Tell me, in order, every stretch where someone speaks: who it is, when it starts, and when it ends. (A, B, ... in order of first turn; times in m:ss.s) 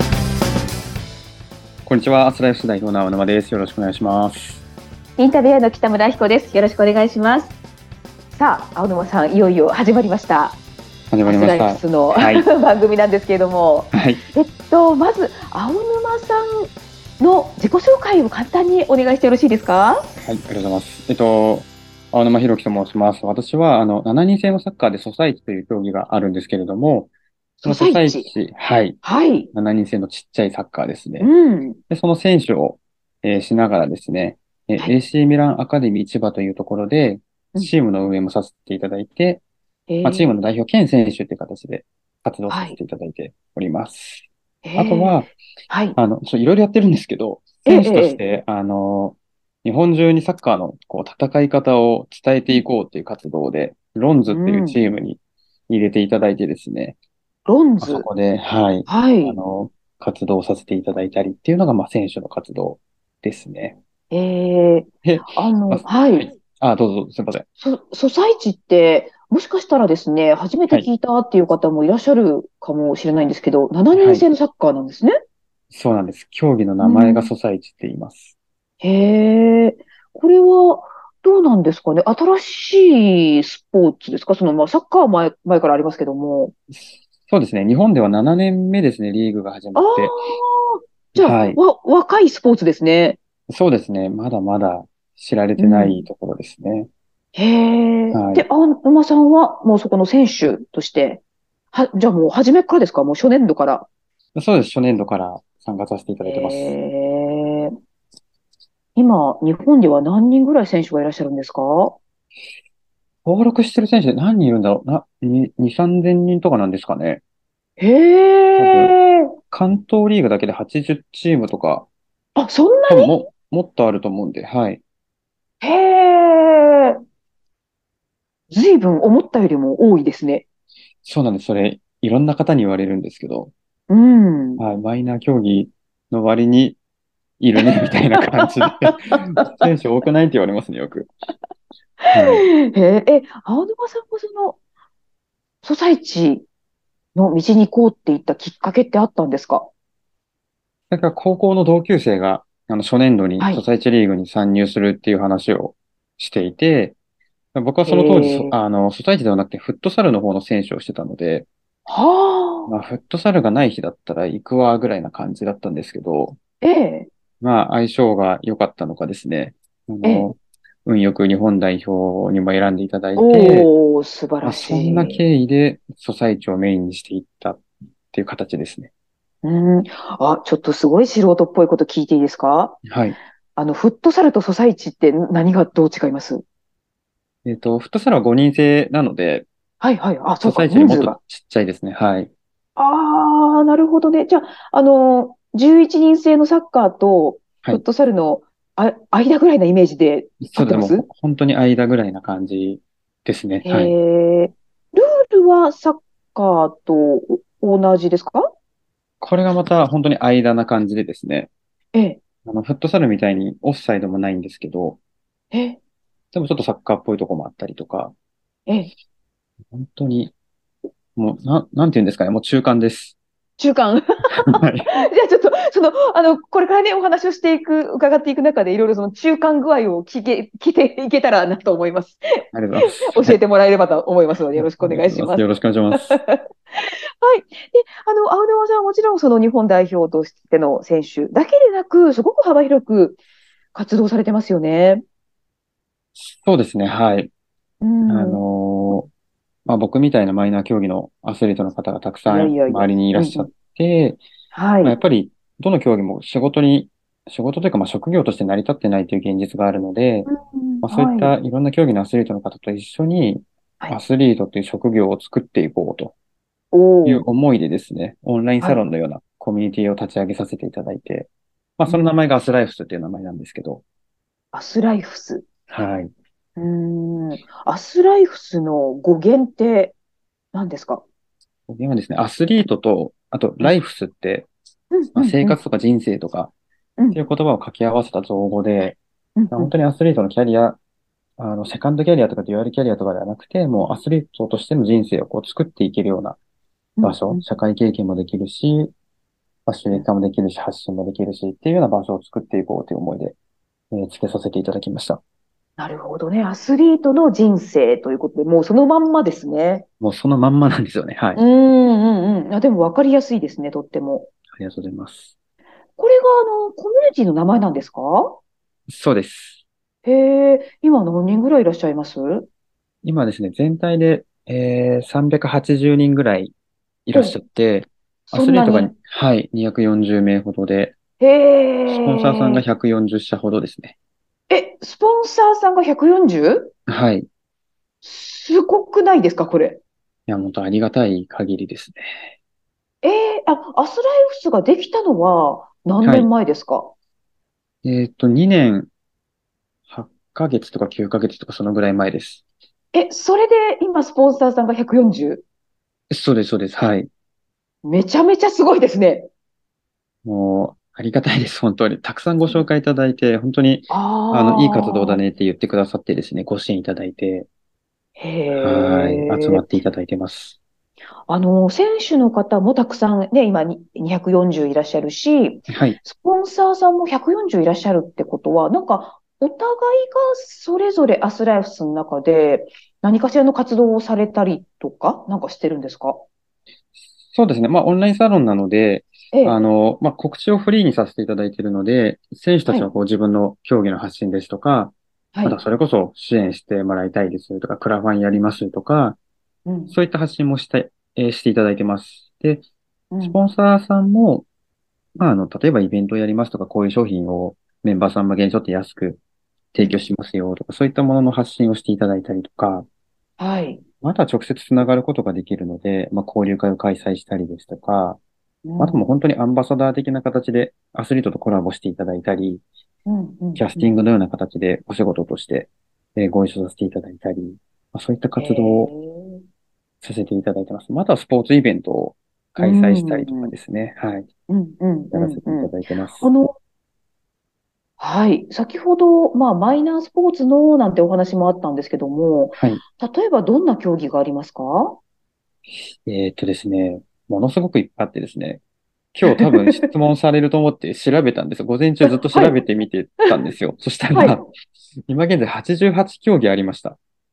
0:01.9-0:04.6 A
0:05.2-0:07.5 B
0:08.3-0:10.6 B
0:11.1-0:12.4 A
0:11.3-0:20.1 B
0:13.9-0:14.2 A
0:20.2-0:27.1 A
0:27.6-0:28.3 B
0:27.6-0:31.3 A
0:29.0-0:29.5 B
0:31.2-0:31.8 B
0:31.9-0:39.4 A
0:39.9-0:40.4 B
0:40.0-0:45.3 A
0:42.5-0:42.8 B
0:44.6-0:46.0 B
0:46.0-0:57.0 A
0:47.7-0:48.2 B
0:54.3-0:54.8 B
0:57.5-0:58.1 B
0:57.8-1:03.8 A
0:58.9-0:59.4 B
1:04.1-1:06.3 B
1:05.0-1:07.5 A
1:07.6-1:15.1 B
1:13.9-1:14.3 A
1:15.7-1:18.4 A
1:16.8-1:17.3 B
1:18.8-1:26.5 B
1:26.7-1:30.2 A
1:29.8-1:33.2 B
1:31.2-1:31.6 A
1:33.5-1:36.9 A
1:35.6-1:36.1 B
1:37.4-1:41.2 B
1:38.1-1:38.4 A
1:41.7-1:43.9 B
1:44.4-1:46.8 A
1:46.2-1:47.7 B
1:49.0-1:52.0 B
1:53.2-1:57.2 A
1:57.8-1:59.3 B
1:58.6-1:59.0 A
1:59.5-2:01.9 A
2:02.4-2:03.1 B
2:02.9-2:04.8 A
2:05.6-2:07.0 B
2:08.5-2:10.5 B
2:11.0-2:13.5 A
2:13.9-2:14.6 B
2:14.6-2:16.8 A
2:17.4-2:21.1 A
2:17.6-2:18.9 B
2:22.1-2:22.5 A
2:22.1-2:24.6 B
2:25.6-2:26.5 B
2:27.2-2:29.7 B
2:30.9-2:37.0 A
2:37.6-2:41.5 A
2:37.9-2:38.6 B
2:41.9-2:42.7 B
2:42.7-2:46.4 A
2:46.6-2:47.1 B
2:47.4-2:53.7 A
2:53.2-2:55.2 B
2:54.4-2:58.9 A
2:59.4-3:02.8 B
3:02.9-3:03.2 A
3:03.6-3:06.4 B
3:07.4-3:09.5 A
3:09.8-3:11.2 B
3:10.4-3:12.3 A
3:12.8-3:21.0 B
3:20.4-3:23.9 A
3:23.6-3:28.5 B
3:29.2-3:31.5 A
3:31.9-3:32.2 B
3:32.4-3:35.0 A
3:35.5-3:35.8 B
3:36.3-3:38.1 A
3:39.7-3:40.3 A
3:41.2-3:43.2 A
3:43.6-3:55.5 B
3:44.5-3:44.9 A
3:52.5-3:53.4 A
3:54.6-3:56.2 A
3:56.1-4:03.2 B
4:03.7-4:05.0 B
4:06.2-4:07.3 A
4:07.8-4:08.4 B
4:08.1-4:09.1 A
4:09.7-4:14.2 A
4:12.3-4:13.5 B
4:14.5-4:15.0 B
4:14.8-4:20.3 A
4:20.3-4:21.3 B
4:20.8-4:26.1 A
4:26.7-4:27.2 B
4:27.0-4:33.8 A
4:31.9-4:32.2 B
4:34.5-4:35.4 B
4:35.7-4:36.1 A
4:36.6-4:40.0 B
4:40.5-4:41.0 B
4:41.7-4:44.5 A
4:44.9-4:45.6 B
4:45.2-4:46.5 A
4:47.1-4:49.0 A
4:49.4-4:49.7 B
4:49.5-4:50.8 A
4:51.4-4:56.4 A
4:57.0-4:57.4 B
4:57.0-4:58.9 A
4:59.7-5:03.4 A
5:03.9-5:05.2 A
5:05.8-5:09.8 B
5:10.0-5:11.4 A
5:11.4-5:14.3 B
5:14.6-5:15.3 A
5:16.0-5:18.4 B
5:18.9-5:19.6 A
5:20.0-5:22.5 B
5:23.0-5:26.5 A
5:27.1-5:31.0 A
5:28.3-5:28.9 B
5:31.2-5:32.6 B
5:31.9-5:34.0 A
5:34.5-5:36.7 B
5:36.9-5:37.3 A
5:38.0-5:39.8 B
5:40.3-5:42.1 A
5:43.0-5:46.9 B
5:46.0-5:46.3 A
5:47.8-5:48.9 A
5:49.9-5:52.4 A
5:52.9-5:55.4 B
5:56.1-5:57.1 A
5:57.8-5:59.3 B
6:00.2-6:07.5 A
6:03.9-6:05.2 B
6:08.2-6:09.6 B
6:08.6-6:10.6 A
6:11.3-6:26.2 B
6:15.7-6:16.0 A
6:27.3-6:39.2 A
6:29.3-6:29.6 B
6:32.7-6:32.9 B
6:35.3-6:35.6 B
6:39.7-6:40.0 B
6:39.9-6:42.7 A
6:43.1-6:43.4 B
6:43.2-6:44.4 A
6:45.2-6:49.2 A
6:49.7-6:52.9 A
6:53.4-6:53.8 B
6:54.0-6:58.2 A
6:58.7-6:59.1 B
6:58.8-7:02.6 A
7:03.1-7:03.9 B
7:03.6-7:08.9 A
7:08.4-7:09.4 B
7:10.0-7:14.3 A
7:12.6-7:13.5 B
7:14.5-7:16.5 B
7:15.1-7:16.3 A
7:18.0-7:25.0 B
7:22.6-7:22.8 A
7:25.7-7:28.6 A
7:29.1-7:34.5 A
7:29.3-7:29.9 B
7:32.3-7:32.6 B
7:34.2-7:34.5 B
7:35.1-7:37.0 A